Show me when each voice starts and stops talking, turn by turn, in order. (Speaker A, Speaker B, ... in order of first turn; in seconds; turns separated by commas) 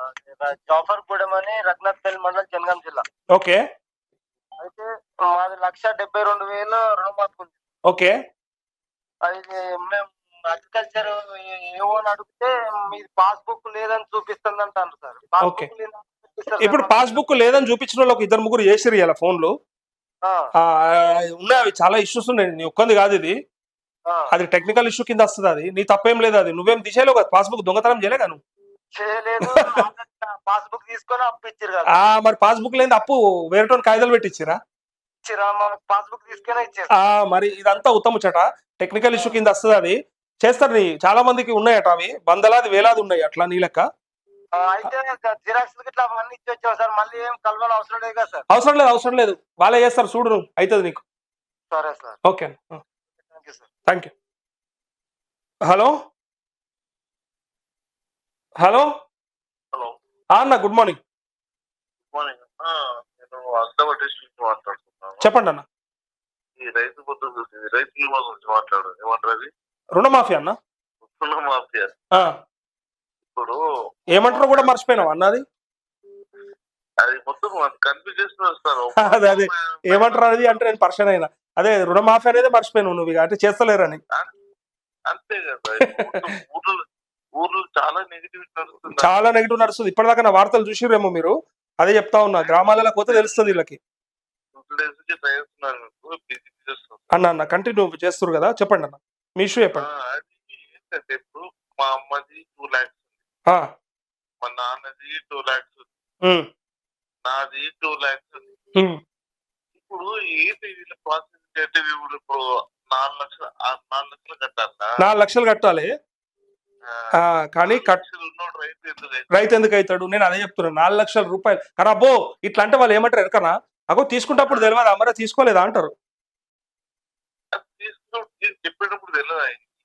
Speaker A: 0.3-3.0, Speaker B: 3.3-3.6, Speaker A: 4.6-7.6, Speaker B: 7.9-8.1, Speaker A: 9.3-17.2, Speaker B: 15.4-15.7, Speaker B: 16.6-19.5, Speaker B: 20.6-23.4, Speaker B: 24.3-28.4, Speaker A: 29.0-32.1, Speaker B: 29.5-29.8, Speaker B: 31.9-34.6, Speaker A: 35.2-36.9, Speaker B: 36.9-43.8, Speaker A: 44.6-48.5, Speaker B: 48.5-51.0, Speaker A: 51.7-52.2, Speaker B: 52.2-52.8, Speaker A: 53.3-53.7, Speaker B: 53.9-54.1, Speaker B: 55.7-55.9, Speaker B: 58.6-58.9, Speaker B: 60.3-61.0, Speaker C: 62.1-65.2, Speaker B: 65.2-65.6, Speaker C: 66.6-69.5, Speaker B: 70.0-70.6, Speaker C: 71.1-72.0, Speaker C: 73.3-73.6, Speaker B: 74.1-75.4, Speaker C: 74.2-75.1, Speaker C: 77.0-80.6, Speaker B: 79.0-84.0, Speaker C: 85.1-86.8, Speaker C: 87.4-89.1, Speaker B: 89.0-93.8, Speaker C: 93.1-93.6, Speaker C: 94.5-97.1, Speaker B: 97.1-99.9, Speaker C: 99.8-103.0, Speaker C: 104.4-105.9, Speaker C: 107.2-108.5, Speaker C: 109.8-112.4, Speaker C: 112.9-114.9, Speaker B: 115.0-115.9, Speaker B: 117.2-118.0, Speaker C: 117.7-119.3, Speaker B: 119.3-125.9, Speaker C: 124.4-124.7, Speaker C: 127.5-129.7